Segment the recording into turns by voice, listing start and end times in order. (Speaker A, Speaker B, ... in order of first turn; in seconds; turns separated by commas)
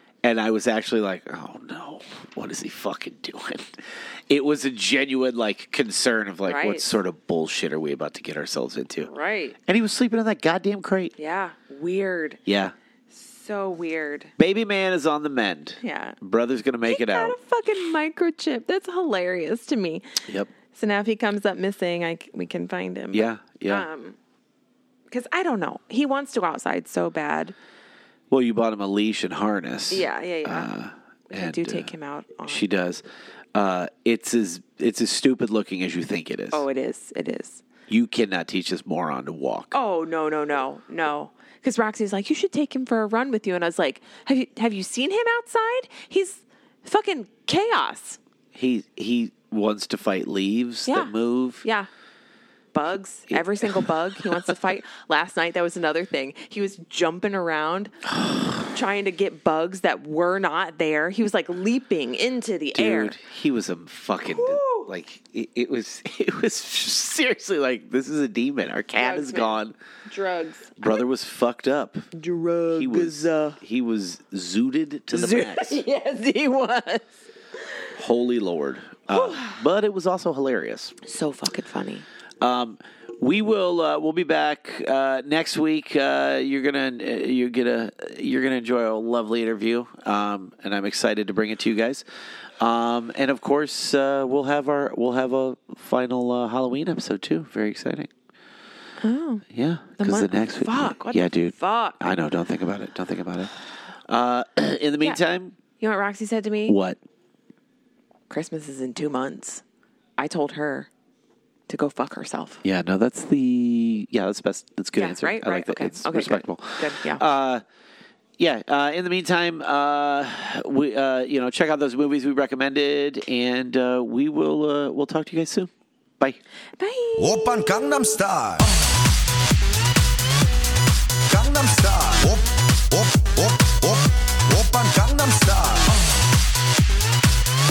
Speaker A: 0.2-9.1, Speaker B: 6.5-6.8, Speaker B: 9.0-9.6, Speaker A: 9.7-11.1, Speaker B: 11.2-12.4, Speaker A: 12.4-12.7, Speaker B: 13.1-14.3, Speaker A: 14.4-17.4, Speaker B: 15.8-16.2, Speaker B: 16.9-24.2, Speaker A: 23.1-23.9, Speaker B: 25.1-27.5, Speaker A: 28.3-31.9, Speaker B: 29.9-30.7, Speaker B: 31.3-32.6, Speaker A: 32.4-33.0, Speaker A: 33.5-36.6, Speaker B: 36.5-37.6, Speaker A: 37.9-39.7, Speaker B: 39.7-48.2, Speaker A: 48.5-51.6, Speaker B: 50.9-51.9, Speaker B: 52.7-58.0, Speaker A: 53.3-53.7, Speaker B: 58.7-63.2, Speaker A: 62.7-69.7, Speaker B: 64.2-64.9, Speaker B: 69.0-71.0, Speaker A: 70.8-72.1, Speaker B: 72.1-73.6, Speaker A: 72.7-75.8, Speaker B: 75.1-77.1, Speaker A: 78.0-80.9, Speaker B: 79.1-79.6, Speaker B: 81.0-82.0, Speaker A: 82.4-92.0, Speaker A: 92.6-98.1, Speaker B: 99.0-99.4, Speaker A: 99.5-103.5, Speaker B: 100.0-102.1, Speaker A: 104.0-105.6, Speaker B: 105.8-106.8, Speaker A: 106.7-107.0, Speaker B: 108.3-109.6, Speaker B: 110.2-110.9, Speaker B: 111.7-112.6, Speaker A: 112.6-117.6, Speaker B: 114.9-117.2, Speaker A: 118.4-126.4, Speaker B: 126.8-128.2, Speaker C: 127.2-128.7, Speaker C: 131.3-136.2